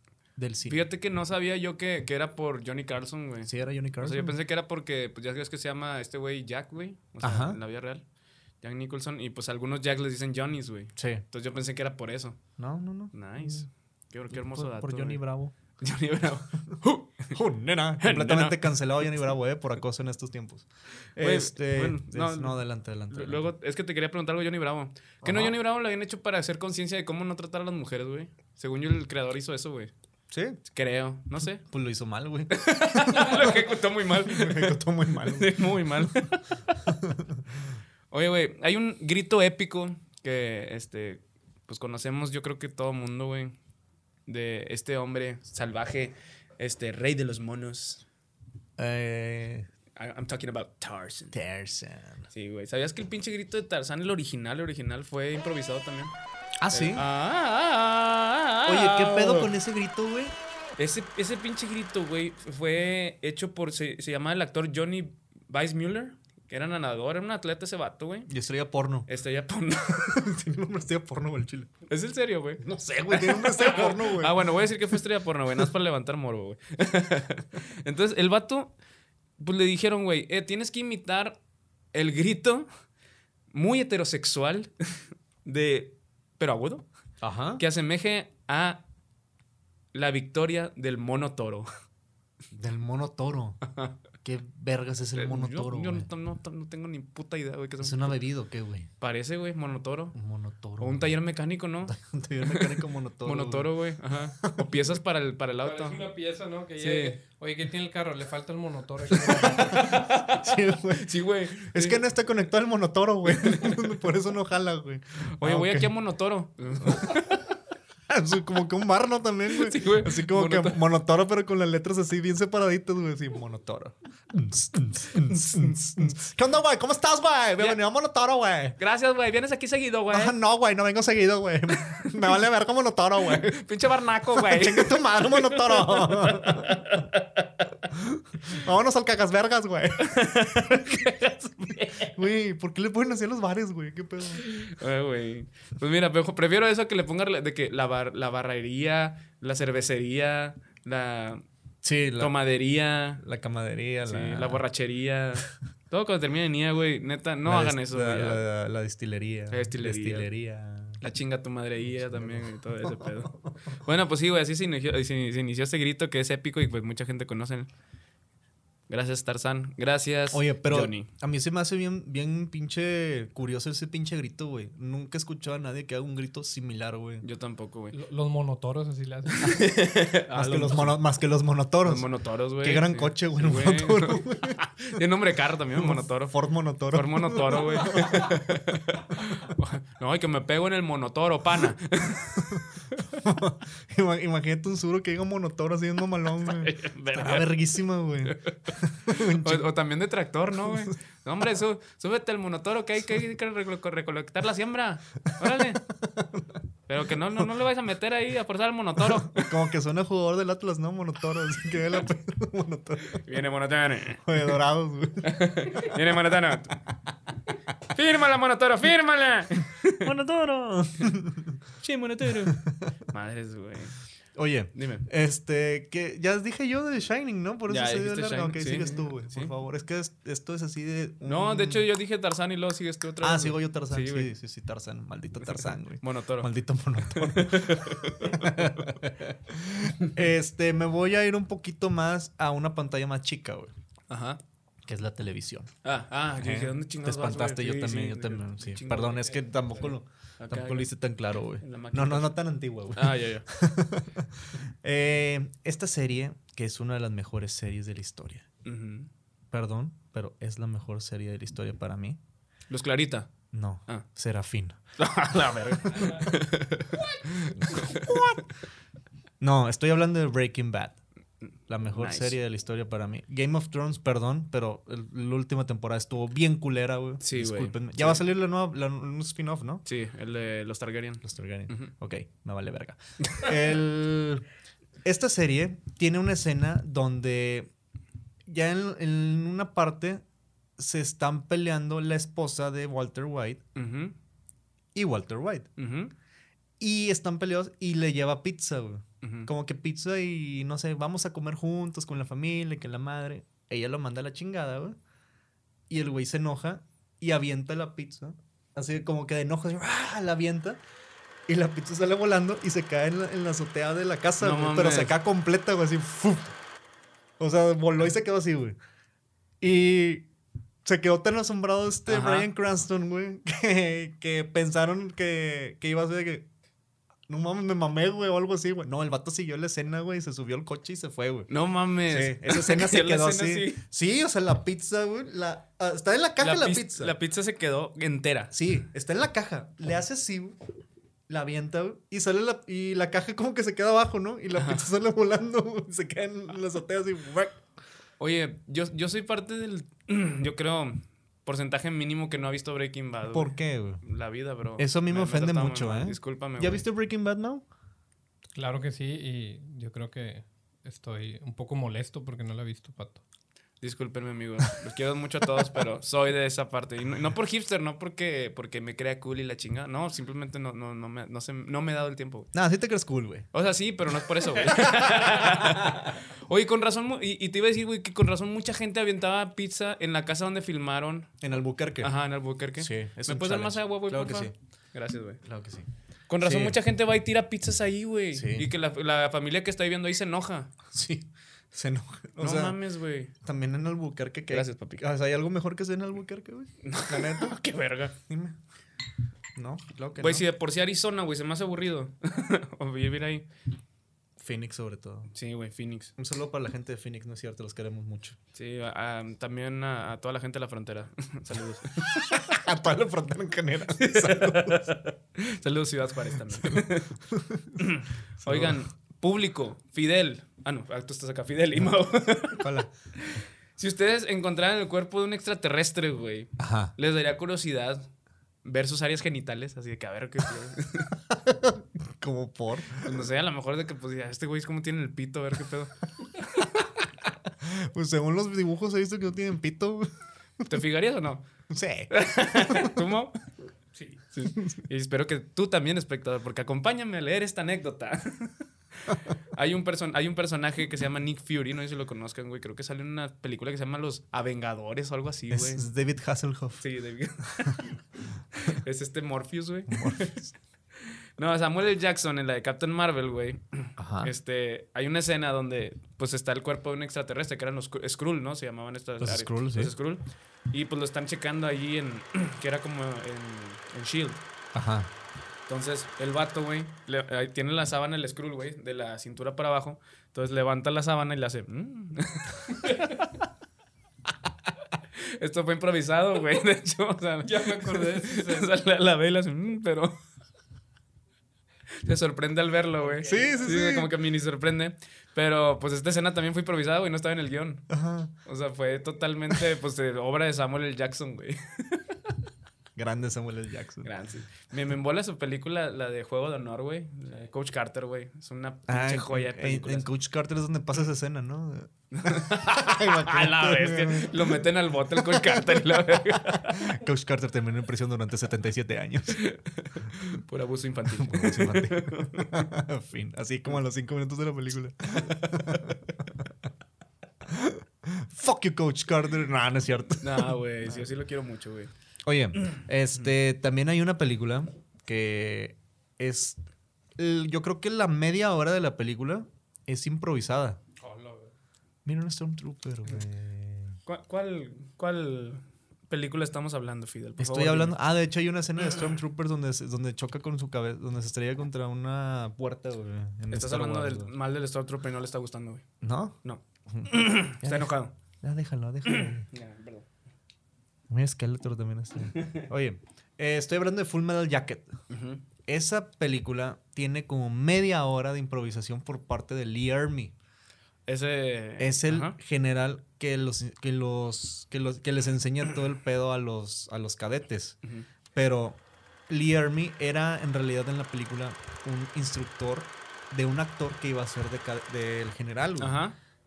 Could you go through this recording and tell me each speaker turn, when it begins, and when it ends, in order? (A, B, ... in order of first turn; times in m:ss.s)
0:00.4-0:00.8 A
0:00.6-0:08.0 B
0:03.4-0:04.4 A
0:07.2-0:07.6 A
0:08.6-0:12.4 B
0:11.0-0:11.2 A
0:12.6-0:13.7 A
0:13.1-0:15.2 B
0:14.3-0:15.5 A
0:15.8-0:17.4 B
0:17.3-0:23.5 A
0:18.0-0:18.7 B
0:21.2-0:22.6 B
0:23.1-0:29.9 B
0:25.2-0:25.6 A
0:30.3-0:30.6 A
0:30.6-0:31.6 B
0:31.4-0:36.1 A
0:32.5-0:36.8 B
0:36.8-0:37.4 A
0:38.1-0:43.6 B
0:44.3-0:48.0 B
0:48.8-0:49.7 A
0:50.0-0:51.4 B
0:51.3-0:52.3 A
0:52.3-0:56.1 B
0:56.6-0:57.0 A
0:56.7-0:59.5 B
0:58.7-1:00.4 A
1:00.8-1:08.3 B
1:08.3-1:09.1 A
1:09.1-1:10.2 B
1:10.0-1:11.7 A
1:11.9-1:18.7 B
1:12.6-1:14.9 A
1:19.4-1:21.4 B
1:21.9-1:22.7 B
1:23.5-1:24.7 B
1:25.4-1:26.9 B
1:27.2-1:27.6 A
1:27.6-1:28.8 B
1:29.9-1:31.7 B
1:32.5-1:33.6 A
1:33.6-1:34.0 B
1:34.2-1:36.1 A
1:35.1-1:38.1 B
1:37.8-1:38.9 A
1:39.0-1:40.1 B
1:40.1-1:41.1 A
1:40.8-1:42.0 B
1:41.9-1:43.7 A
1:42.5-1:46.0 B
1:44.4-1:44.9 A
1:45.6-1:50.0 C
1:46.8-1:47.2 B
1:49.2-1:51.1 A
1:49.4-1:52.0 B
1:51.6-1:55.9 A
1:53.3-1:53.9 B
1:55.4-1:57.5 B
1:56.8-1:57.2 A
1:58.1-2:08.8 A
1:59.5-2:00.8 B
2:05.4-2:05.7 B
2:08.8-2:10.4 B
2:10.1-2:13.6 A
2:13.3-2:17.7 B
2:14.3-2:16.8 A
2:17.9-2:21.1 A
2:20.0-2:22.1 B
2:22.0-2:24.4 A
2:24.4-2:31.4 B
2:31.8-2:32.4 A
2:32.2-2:33.2 B
2:33.2-2:34.6 A
2:34.1-2:38.4 B
2:37.4-2:41.0 A
2:39.5-2:40.3 B
2:41.0-2:47.7 B
2:41.8-2:43.8 A
2:48.9-2:51.1 B
2:50.3-2:57.2 A
2:57.2-2:58.0 B
2:57.9-2:59.6 C
2:59.4-3:01.0 B
3:00.3-3:02.1 A
3:01.8-3:06.4 B
3:02.6-3:04.6 A
3:05.7-3:08.6 A
3:06.9-3:12.6 B
3:12.4-3:19.7 A
3:16.5-3:17.6 B
3:18.3-3:25.8 B
3:26.0-3:26.5 A
3:26.9-3:29.5 B
3:29.0-3:33.2 A
3:33.1-3:34.5 B
3:34.2-3:35.8 A
3:35.2-3:36.8 B
3:37.9-3:40.1 B
3:40.0-3:41.6 A
3:41.8-3:42.6 B
3:42.5-3:42.9 A
3:43.1-3:44.0 B
3:44.4-3:51.8 A
3:44.8-3:45.1 B
3:47.7-3:49.5 B
3:51.2-3:54.3 B
3:53.2-4:03.7 A
3:55.6-3:58.9 B
4:04.1-4:04.4 B
4:04.8-4:05.7 A
4:05.8-4:09.4 B
4:06.4-4:18.5 A
4:10.4-4:10.9 B
4:11.6-4:12.4 B
4:12.9-4:13.5 B
4:18.6-4:19.1 B
4:19.5-4:22.2 A
4:22.7-4:23.3 B
4:23.5-4:24.8 A
4:25.0-4:28.4 B
4:27.2-4:28.4 A
4:29.4-4:31.0 A
4:31.7-4:39.8 A
4:31.9-4:32.4 B
4:37.2-4:38.2 B
4:39.8-4:41.9 B
4:41.2-4:44.4 A
4:45.0-4:47.7 A
4:48.5-4:50.2 A
4:50.8-4:53.6 A
4:53.8-4:54.2 B
4:55.0-4:55.7 A
4:55.8-4:56.1 B
4:56.8-5:05.0 A
4:59.2-4:59.5 B
5:05.9-5:10.8 A
5:11.5-5:16.6 A
5:14.4-5:15.1 B
5:17.4-5:18.8 A
5:19.6-5:20.3 A
5:20.8-5:26.5 A
5:22.1-5:22.5 B
5:27.3-5:31.5 A
5:31.5-5:33.8 B
5:32.1-5:37.1 A
5:36.4-5:38.5 B
5:38.5-5:40.6 A
5:41.3-5:47.6 A
5:44.6-5:44.9 B
5:48.2-5:56.8 B
5:53.3-5:54.0 A
5:54.8-5:57.6 A
5:58.6-6:03.2 C
6:03.8-6:12.5 B
6:12.5-6:13.5 A
6:13.5-6:21.3 B
6:14.4-6:16.1 A
6:21.4-6:22.1 A
6:22.0-6:25.4 B
6:22.8-6:24.5 A
6:25.4-6:25.9 A
6:26.3-6:30.7 B
6:26.4-6:26.8 A
6:28.3-6:28.7 A
6:30.9-6:32.8 A
6:32.4-6:33.3 B
6:33.4-6:37.6 A
6:34.5-6:35.0 B
6:36.8-6:38.1 B
6:38.3-6:38.6 A
6:39.6-6:40.4 A
6:40.2-6:43.5 B
6:44.4-6:45.3 A
6:45.3-6:46.1 B
6:46.2-6:48.4 A
6:48.6-6:52.5 B
6:52.1-6:54.9 A
6:54.0-6:57.2 B
6:56.5-6:57.8 A
6:57.8-7:08.1 B
6:58.4-6:58.8 A
7:02.6-7:02.9 A
7:06.6-7:06.9 A
7:08.6-7:11.1 B
7:11.3-7:13.3 A
7:13.0-7:15.9 B
7:17.6-7:20.1 A
7:20.7-7:21.5 B
7:21.7-7:22.9 A
7:22.1-7:23.4 B
7:24.3-7:35.8 B
7:35.5-7:36.8 A
7:36.8-7:38.0 B
7:38.6-7:40.4 B
7:39.9-7:40.5 A
7:41.4-7:54.4 B
7:44.0-7:44.3 A
7:49.2-7:49.9 A
7:54.7-7:55.1 A
7:55.7-8:03.3 B
8:05.2-8:10.1 B
8:07.4-8:08.7 C
8:12.0-8:17.9 B
8:13.0-8:13.6 C
8:13.2-8:14.1 A
8:17.9-8:18.3 A
8:18.4-8:22.4 B
8:23.0-8:24.1 A
8:24.0-8:30.1 B
8:28.9-8:39.4 A
8:32.1-8:37.0 B
8:39.3-8:42.6 B
8:41.1-8:46.5 A
8:45.3-8:45.8 B
8:47.4-8:50.6 A
8:50.2-8:51.9 B
8:52.2-8:56.6 A
8:57.2-9:00.8 A
9:01.0-9:01.5 C
9:02.0-9:04.0 A
9:04.1-9:07.9 B
9:07.4-9:14.3 A
9:13.5-9:15.9 B
9:16.0-9:16.4 A
9:16.4-9:18.1 B
9:16.9-9:19.5 A
9:19.1-9:20.1 B
9:21.1-9:24.9 A
9:22.4-9:22.6 B
9:25.1-9:25.4 B
9:25.6-9:30.3 A
9:31.1-9:32.4 B
9:31.8-9:37.8 A
9:38.3-9:46.0 A
9:45.8-9:46.2 B